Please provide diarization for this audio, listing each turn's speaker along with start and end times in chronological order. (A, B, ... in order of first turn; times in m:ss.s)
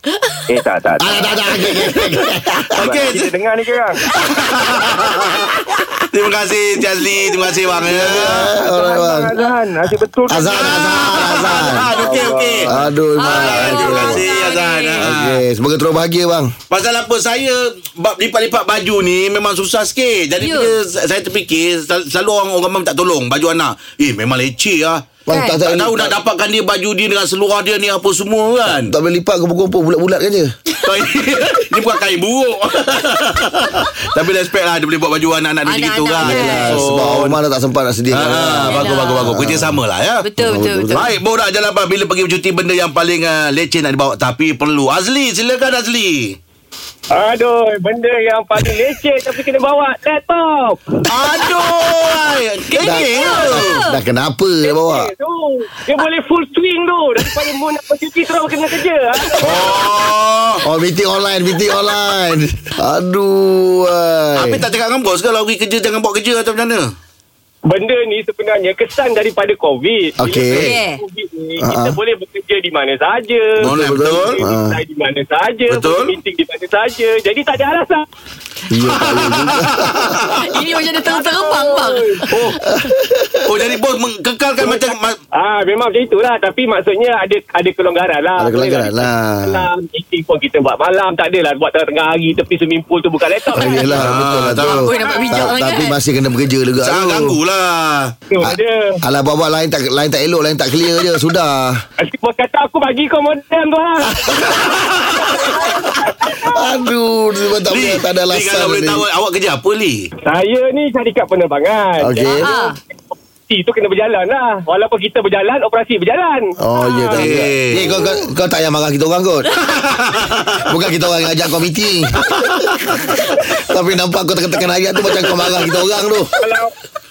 0:00.5-0:02.0 A
0:01.0-0:02.8 B
0:02.7-0:04.1 A
0:02.8-0:03.3 C
0:04.2-0:08.5 C
0:07.9-0:09.3 B
0:07.9-0:12.8 A
0:10.3-0:11.9 B
0:10.5-0:12.7 C
0:12.7-0:14.2 B
0:13.2-0:15.1 D
0:13.2-0:15.4 C
0:15.0-0:16.5 B
0:16.7-0:25.1 C
0:20.4-0:20.7 D
0:25.3-0:26.2 B
0:25.3-0:25.6 D
0:25.6-0:28.9 C
0:28.7-0:30.5 B
0:30.8-0:37.4 C
0:35.7-0:36.8 D
0:36.2-0:39.8 B
0:38.1-0:40.2 C
0:38.7-0:39.3 D
0:40.2-0:41.1 D
0:40.4-0:41.1 B
0:40.9-0:46.4 C
0:47.1-0:51.1 E
0:51.1-0:53.8 C
0:52.7-0:54.0 D
0:52.8-0:55.1 B
0:54.6-0:59.8 E
0:59.4-1:00.6 C
1:00.6-1:04.6 B
1:04.4-1:06.9 C
1:07.7-1:18.0 E
1:10.2-1:10.7 B
1:10.5-1:11.0 D
1:11.6-1:12.0 B
1:13.6-1:14.4 C
1:13.6-1:14.8 B
1:15.7-1:16.2 C
1:18.7-1:20.3 B
1:18.9-1:20.4 C
1:20.4-1:22.2 D
1:21.0-1:22.6 E
1:22.4-1:23.6 B
1:23.4-1:25.2 C
1:24.6-1:34.0 E
1:28.4-1:29.6 B
1:33.5-1:37.4 B
1:34.0-1:34.9 C
1:34.6-1:36.0 D
1:35.1-1:35.4 E
1:36.8-1:38.1 C
1:38.3-1:39.0 E
1:38.4-1:41.8 B
1:42.0-1:46.8 E
1:44.3-1:45.3 C
1:46.5-1:49.0 B
1:47.7-1:50.0 C
1:50.2-1:52.8 E
1:52.0-1:52.5 B
1:52.4-1:52.8 D
1:53.5-1:57.2 E
1:56.6-1:59.5 B
1:57.2-1:58.0 C
1:59.7-2:00.7 C
2:00.7-2:02.5 B
2:02.3-2:02.6 C
2:03.3-2:06.3 B
2:06.4-2:06.7 E